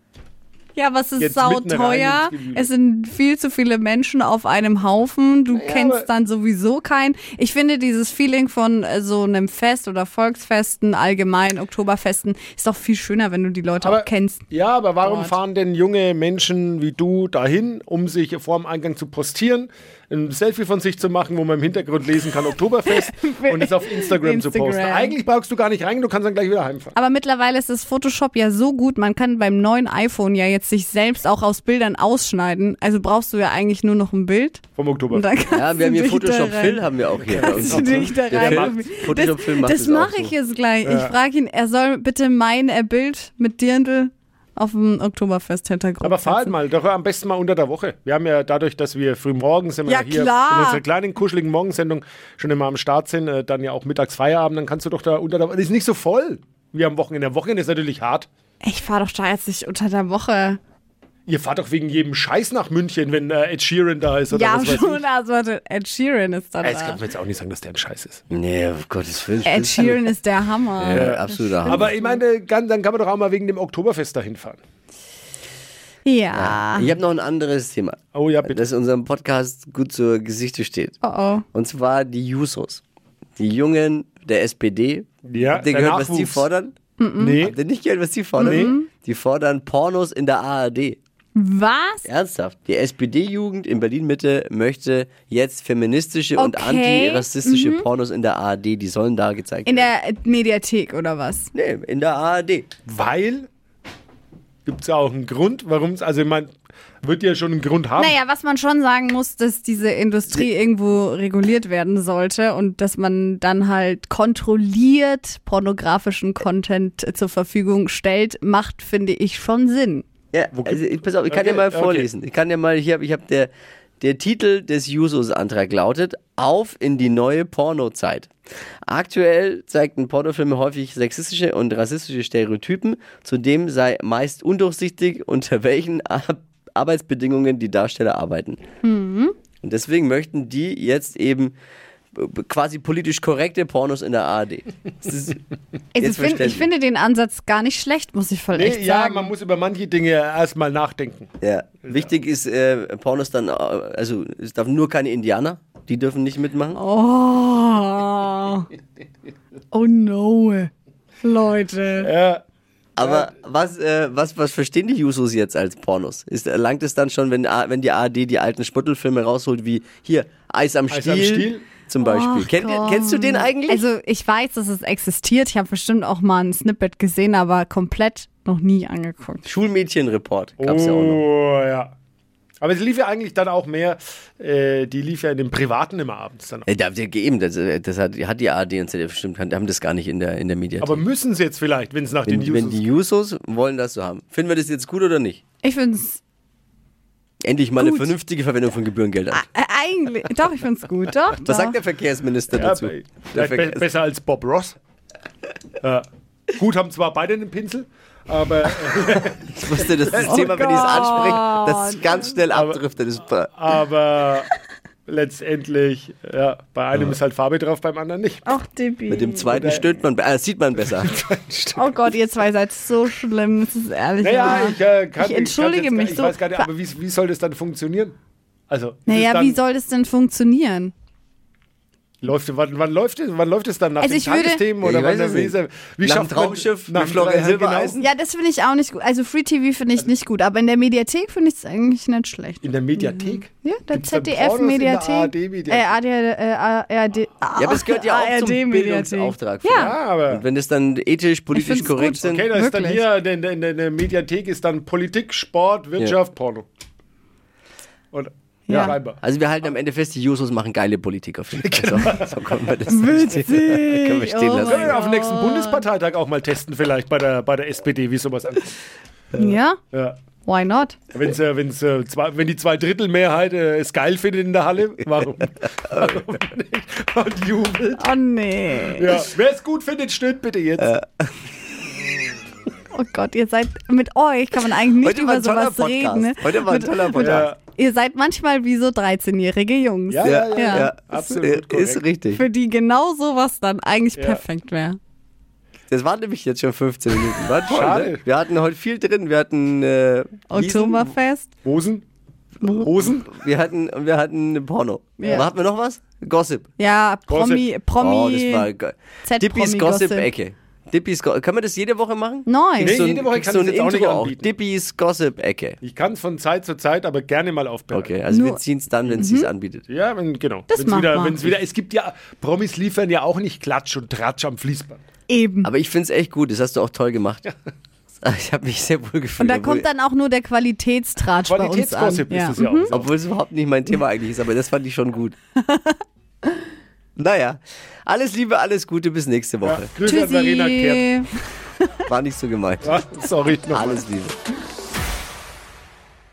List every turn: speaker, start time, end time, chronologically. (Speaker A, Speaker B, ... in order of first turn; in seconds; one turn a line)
Speaker A: 0.7-14.5
Speaker B: 1.2-2.7
Speaker B: 5.5-6.1
Speaker B: 13.8-26.9
Speaker A: 15.0-15.3
Speaker A: 22.9-25.1
Speaker A: 26.9-46.5
Speaker B: 34.8-35.3
Speaker C: 35.5-40.3
Speaker B: 37.2-38.9
Speaker B: 40.8-41.1
Speaker B: 46.0-58.3
Speaker A: 49.9-50.8
Speaker A: 58.6-60.6
Speaker B: 61.3-65.0
Speaker A: 64.3-67.0
Speaker B: 66.6-68.2
Speaker C: 68.3-70.1
Speaker A: 69.4-72.2
Speaker C: 70.8-71.9
Speaker B: 70.9-74.6
Speaker A: 76.0-76.9
Speaker C: 76.3-81.0
Speaker B: 78.1-78.6
Speaker A: 81.0-81.5
Speaker C: 81.5-82.8
Speaker C: 83.4-86.7
Speaker B: 85.3-86.5
Speaker A: 87.0-87.4
Speaker B: 87.2-87.6
Speaker C: 87.4-91.0
Speaker A: 88.4-88.9
Speaker B: 88.4-88.7
Speaker A: 91.3-92.1
Speaker C: 92.0-99.9
Speaker A: 96.4-97.8
Speaker A: 99.7-101.5
Speaker C: 101.5-102.7
Speaker B: 102.8-103.5
Speaker B: 104.6-106.5
Speaker B: 107.0-108.2
Speaker A: 108.0-120.0
Speaker C: 120.3-128.3
Speaker B: 120.5-122.1
Speaker C: 128.9-138.6
Speaker A: 138.8-139.3
Speaker C: 139.6-141.5
Speaker C: 142.1-145.4
Speaker A: 145.9-149.3
Speaker C: 146.0-146.7
Speaker B: 148.5-151.3
Speaker C: 151.4-156.8
Speaker B: 151.8-152.2
Speaker A: 156.7-158.7
Speaker A: 159.7-160.7
Speaker A: 161.2-162.1
Speaker B: 162.0-162.4
Speaker C: 163.0-173.8
Speaker B: 163.0-163.3
Speaker B: 170.9-171.6
Speaker A: 172.0-179.4
Speaker C: 179.4-181.2
Speaker B: 180.6-181.9
Speaker B: 182.6-186.7
Speaker C: 186.7-191.0
Speaker B: 190.8-192.8
Speaker C: 192.3-195.4
Speaker A: 195.6-196.2
Speaker C: 197.4-199.4
Speaker A: 197.8-198.1
Speaker A: 199.3-201.8
Speaker C: 201.4-203.8
Speaker B: 202.5-204.8
Speaker B: 205.8-211.4
Speaker C: 209.6-213.5
Speaker A: 210.2-212.3
Speaker B: 212.5-212.8
Speaker B: 213.5-214.5
Speaker B: 215.1-218.4
Speaker A: 218.4-219.9
Speaker C: 219.1-221.2
Speaker B: 219.5-219.9
Speaker B: 221.1-221.6
Speaker A: 221.8-226.7
Speaker B: 224.2-228.1
Speaker B: 228.7-229.6
Speaker A: 229.1-230.9
Speaker B: 232.2-238.1
Speaker A: 234.0-234.6
Speaker C: 234.8-238.0
Speaker A: 238.0-249.9
Speaker B: 242.6-246.0
Speaker C: 247.6-252.5
Speaker B: 249.7-250.4
Speaker A: 251.5-253.0
Speaker B: 252.2-256.7
Speaker B: 258.1-259.2
Speaker A: 258.7-258.9
Speaker C: 258.7-265.0
Speaker B: 261.5-263.3
Speaker A: 262.9-265.8
Speaker B: 264.6-268.8
Speaker A: 269.4-269.8
Speaker B: 269.4-270.2
Speaker A: 270.4-271.0
Speaker B: 271.1-278.1
Speaker C: 275.9-276.2
Speaker A: 278.0-279.2
Speaker B: 278.9-280.9
Speaker C: 280.8-281.3
Speaker A: 282.9-291.2
Speaker C: 285.0-287.5
Speaker B: 287.2-287.6
Speaker B: 290.1-292.0
Speaker C: 290.2-292.4
Speaker A: 292.3-295.0
Speaker B: 294.1-294.4
Speaker C: 295.9-301.1
Speaker B: 297.6-298.2
Speaker A: 300.5-301.5
Speaker B: 301.6-302.0
Speaker B: 302.6-303.3
Speaker C: 302.6-306.7
Speaker A: 305.2-305.5
Speaker A: 306.8-308.7
Speaker B: 307.3-307.7
Speaker C: 308.0-315.8
Speaker A: 309.2-310.3
Speaker A: 312.4-313.1
Speaker B: 312.8-314.5
Speaker B: 315.8-318.3
Speaker C: 317.9-319.8
Speaker A: 318.3-318.6
Speaker B: 319.0-319.3
Speaker A: 319.2-319.5
Speaker B: 319.9-325.0
Speaker A: 320.7-321.4
Speaker A: 325.3-325.7
Speaker C: 325.6-327.5
Speaker C: 328.2-329.9
Speaker A: 329.4-332.9
Speaker B: 331.4-333.1
Speaker C: 332.9-335.3
Speaker A: 335.6-336.0
Speaker C: 337.2-339.9
Speaker B: 339.6-341.1
Speaker A: 340.0-341.3
Speaker C: 342.1-343.1
Speaker B: 342.8-344.0
Speaker C: 343.7-344.4